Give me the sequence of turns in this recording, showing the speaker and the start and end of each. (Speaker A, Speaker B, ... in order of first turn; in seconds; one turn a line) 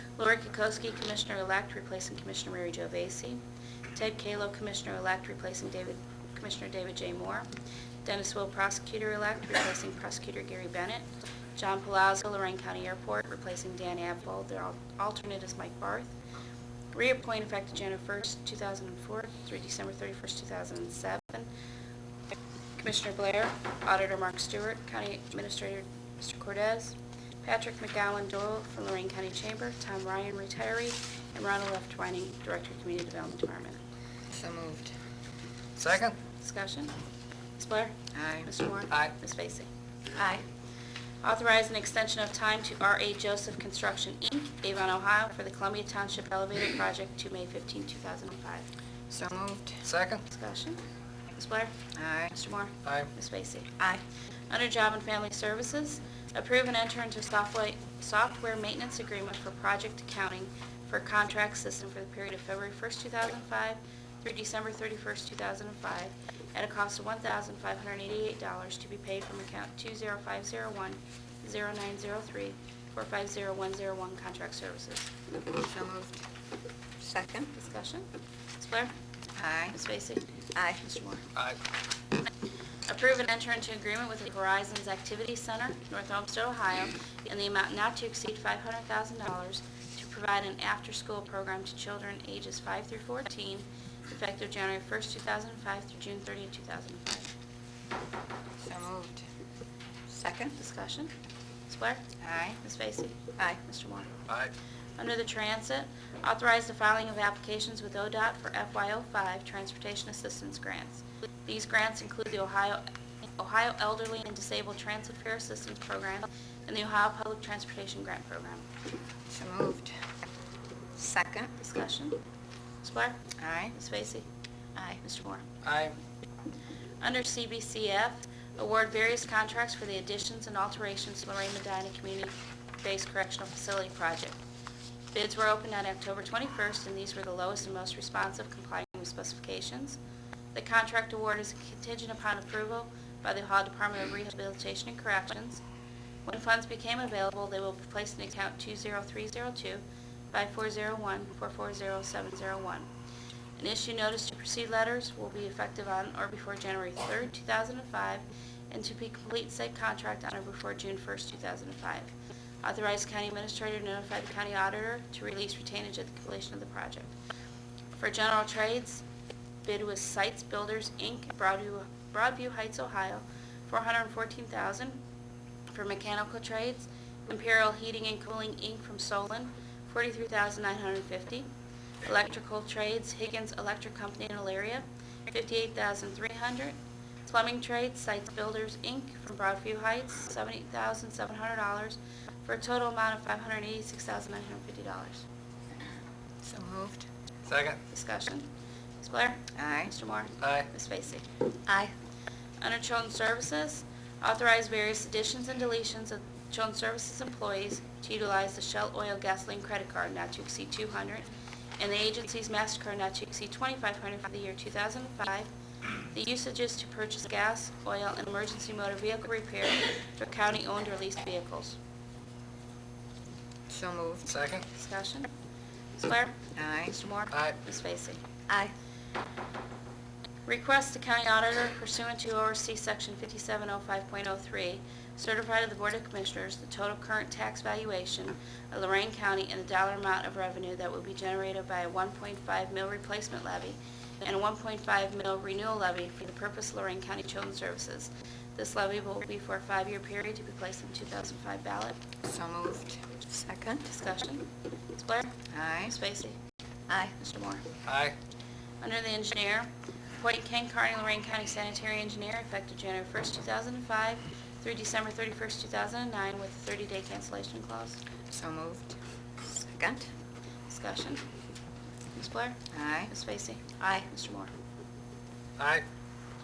Speaker A: 0.2-3.4
Speaker A: 3.9-7.5
Speaker A: 8.1-16.1
Speaker A: 16.9-21.5
Speaker A: 22.8-33.8
Speaker B: 34.3-34.9
Speaker C: 35.8-36.2
Speaker A: 36.4-37.0
Speaker A: 37.6-39.7
Speaker B: 38.1-38.5
Speaker B: 40.2-40.4
Speaker A: 41.2-48.7
Speaker B: 49.1-49.8
Speaker C: 49.8-50.2
Speaker A: 50.3-50.8
Speaker A: 51.4-51.8
Speaker B: 52.0-52.4
Speaker A: 52.3-53.7
Speaker C: 52.9-53.1
Speaker A: 54.5-75.1
Speaker B: 75.6-76.2
Speaker B: 77.0-77.5
Speaker A: 77.5-78.1
Speaker A: 78.6-78.9
Speaker B: 79.4-79.8
Speaker A: 79.7-80.3
Speaker B: 80.5-80.8
Speaker A: 80.8-81.3
Speaker A: 82.9-97.3
Speaker B: 98.6-99.2
Speaker B: 100.1-100.6
Speaker A: 100.6-101.1
Speaker A: 101.7-102.0
Speaker B: 102.2-102.6
Speaker A: 102.6-104.1
Speaker A: 105.0-112.8
Speaker A: 113.4-118.7
Speaker B: 119.3-119.9
Speaker B: 121.0-121.5
Speaker A: 121.6-122.2
Speaker A: 122.8-124.3
Speaker B: 123.4-123.7
Speaker B: 124.8-125.0
Speaker A: 125.0-125.4
Speaker C: 125.6-126.0
Speaker A: 127.0-134.4
Speaker A: 135.1-140.0
Speaker A: 140.5-145.6
Speaker A: 146.2-152.9
Speaker A: 153.6-167.2
Speaker A: 167.9-169.0
Speaker A: 169.7-175.0
Speaker A: 175.7-181.5
Speaker A: 182.0-195.2
Speaker B: 196.4-197.1
Speaker C: 197.5-197.8
Speaker A: 197.9-198.5
Speaker A: 199.0-201.2
Speaker B: 199.6-199.9
Speaker C: 200.4-200.7
Speaker B: 201.7-201.9
Speaker A: 202.6-215.5
Speaker A: 216.1-221.8
Speaker B: 223.7-224.3
Speaker C: 224.3-224.7
Speaker A: 224.7-225.3
Speaker A: 226.0-228.2
Speaker B: 226.6-226.9
Speaker A: 230.5-252.0
Speaker B: 252.2-253.9
Speaker A: 253.9-256.4
Speaker B: 255.5-255.9
Speaker B: 256.9-257.1
Speaker A: 257.2-257.6
Speaker C: 257.9-258.1
Speaker A: 258.8-268.0
Speaker B: 268.3-270.1
Speaker A: 270.7-271.3
Speaker A: 272.1-274.5
Speaker B: 272.7-273.1
Speaker B: 273.8-274.1
Speaker C: 275.6-275.8